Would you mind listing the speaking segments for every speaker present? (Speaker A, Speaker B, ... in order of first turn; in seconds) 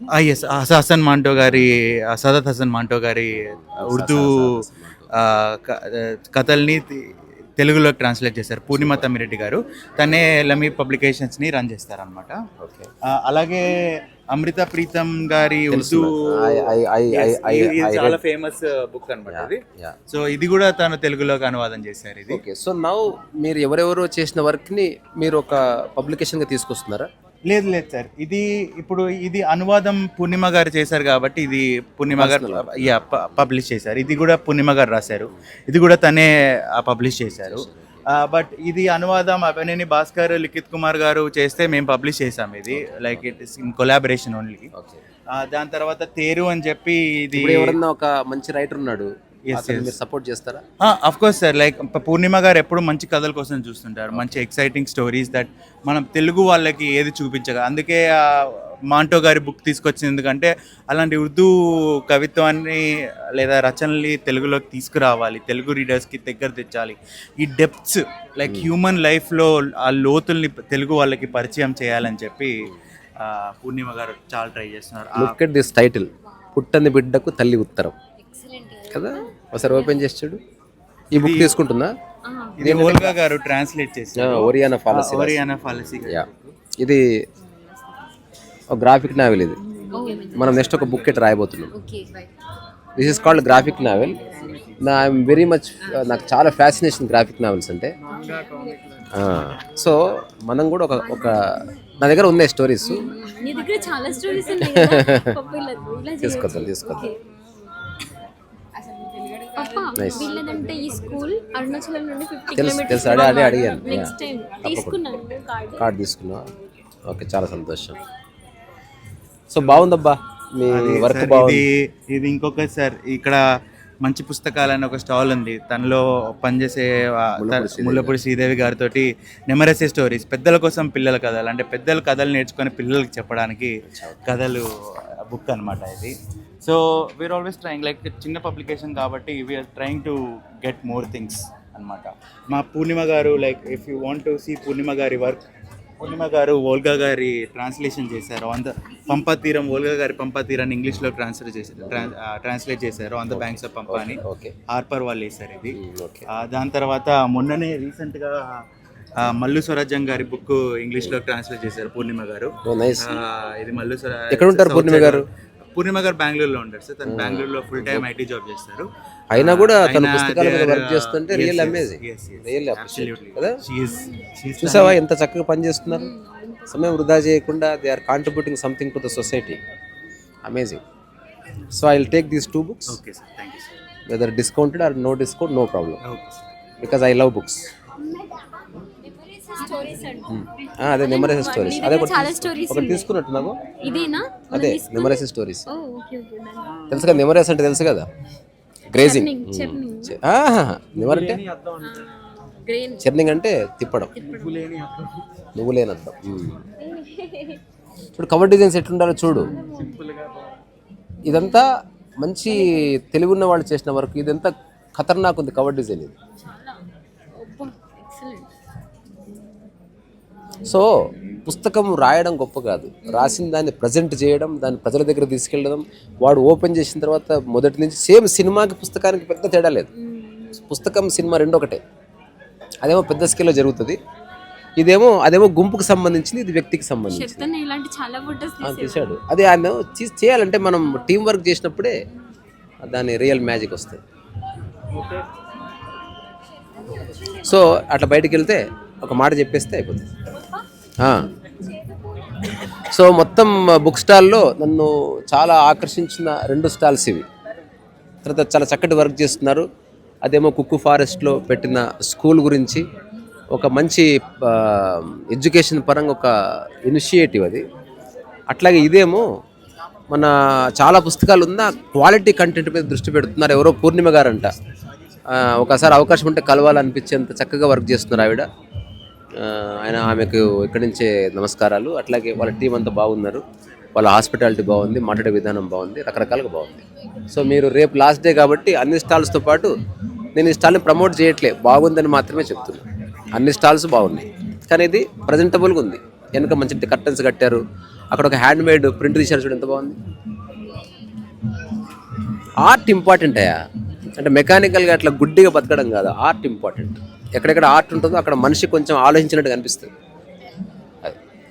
Speaker A: 0.1-4.5, 5.1-12.4, 13.1-22.4, 27.5-44.7, 45.3-47.8, 49.5-49.9, 50.8-61.5, 62.1-72.7, 73.2-75.3, 81.2-81.6, 82.6-86.5, 119.6-119.8, 120.7-123.4, 124.0-134.7, 135.2-145.4, 146.0-158.6, 159.2-175.0, 182.9-183.7, 186.1-186.4
Speaker B: 1.5-1.8, 3.4-5.1, 8.7-9.1, 12.6-12.9, 15.7-18.2, 19.3-20.0, 22.3-27.1, 32.1-33.4, 37.3-38.0, 42.7-43.3, 44.7-45.0, 47.3-50.6, 75.2-77.9, 78.9-80.4, 81.1-81.9, 82.6-83.2, 84.2-86.2, 86.8-87.1, 88.7-89.6, 90.3-91.7, 93.0-97.9, 99.1-103.1, 104.6-105.2, 106.2-107.0, 110.0-110.3, 112.5-115.0, 115.8-116.5, 117.1-118.0, 119.5-121.6, 127.4-128.2, 133.8-134.4, 153.3-154.5, 155.7-156.2, 162.6-163.2, 164.3-165.2, 167.1-168.1, 169.3-173.6, 174.6-176.1, 176.7-179.6, 180.4-180.8, 181.7-182.9, 184.1-186.0, 186.8-187.7, 190.3-193.6, 194.5-195.7, 196.9-198.1, 198.9-201.4, 203.0-204.1, 205.5-206.7, 208.2-209.5, 211.2-211.7, 212.2-216.1, 220.6-220.9, 221.4-229.9, 230.5-231.8, 232.8-234.0, 234.8-237.5, 238.6-241.9, 242.8-244.0, 247.4-250.1, 251.0-251.2, 252.7-257.2, 258.2-259.6, 260.2-262.8, 263.5-266.3, 266.9-267.6, 268.5-269.2, 270.1-274.5, 275.3-278.4, 279.4-283.4, 283.9-289.7, 290.4-300.0, 302.6-303.6, 304.2-309.9
Speaker C: 78.2-80.0, 82.2-82.6, 89.9-91.1, 91.7-92.3, 98.1-98.8, 101.1-101.4, 102.8-107.2, 109.4-115.9, 173.8-174.3, 175.8-176.9, 188.0-190.3, 191.0-197.2, 198.9-200.2, 201.8-203.2, 204.1-204.8, 206.8-207.6, 209.3-210.2, 216.4-216.8, 217.4-218.5, 223.0-223.4, 229.9-230.7, 237.1-239.2, 251.5-252.4